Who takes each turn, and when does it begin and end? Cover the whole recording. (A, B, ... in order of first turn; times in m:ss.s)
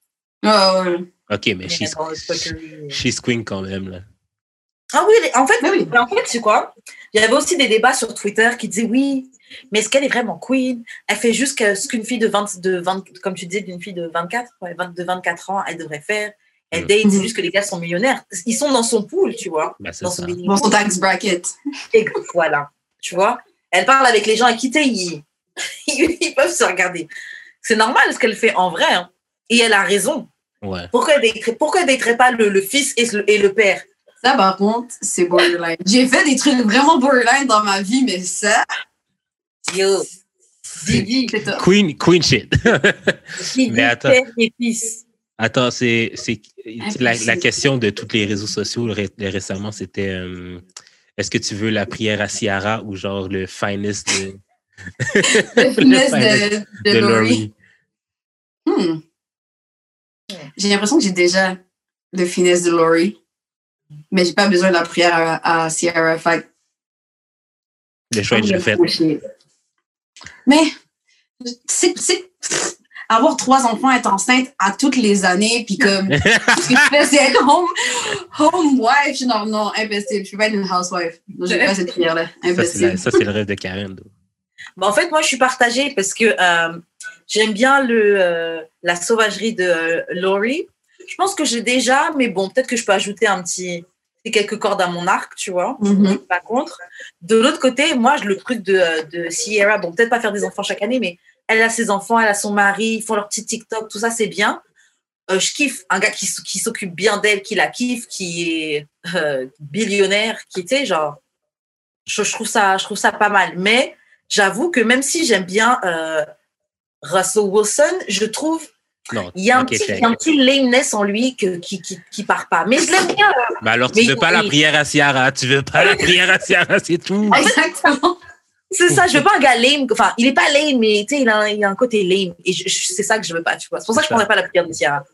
0:00.4-0:01.0 A
0:01.3-0:04.0 B
0:01.7-0:03.0 C
0:04.9-0:20.8 C
0:05.6-0:05.9 A
0:17.0-0:17.3 A
0:19.8-0:20.4 B
0:20.5-0:21.5 A
0:21.9-0:25.2 C
0:25.9-0:27.1 C
0:27.6-0:30.3 C
0:30.6-0:30.9 B
0:30.9-0:33.9 C
0:34.2-0:38.6 A
0:39.7-0:40.1 C
0:40.8-0:41.3 C
0:40.8-0:41.6 A
0:41.6-0:44.2 B
0:43.4-0:45.0 C
0:45.4-0:50.6 B
0:46.8-0:47.4 A
0:51.2-0:54.4 B
0:55.0-0:57.5 B
0:55.3-0:57.4 A
0:58.7-0:59.0 A
1:00.6-1:01.6 A
1:02.1-1:03.2 A
1:04.1-1:06.5 A
1:08.1-1:09.0 B
1:08.3-1:09.2 A
1:10.5-1:10.7 A
1:11.4-1:23.0 A
1:16.1-1:16.8 B
1:21.5-1:21.7 C
1:22.6-1:24.1 B
1:24.8-1:44.6 C
1:35.8-1:36.2 A
1:45.3-1:51.2 C
1:52.1-1:56.3 C
1:57.0-1:58.7 C
1:59.1-2:00.2 B
1:59.3-2:03.4 C
2:03.6-2:07.4 B
2:03.9-2:04.5 C
2:07.3-2:07.6 C
2:07.3-2:08.2 A
2:08.7-2:15.0 C
2:08.9-2:09.2 B
2:14.0-2:14.2 B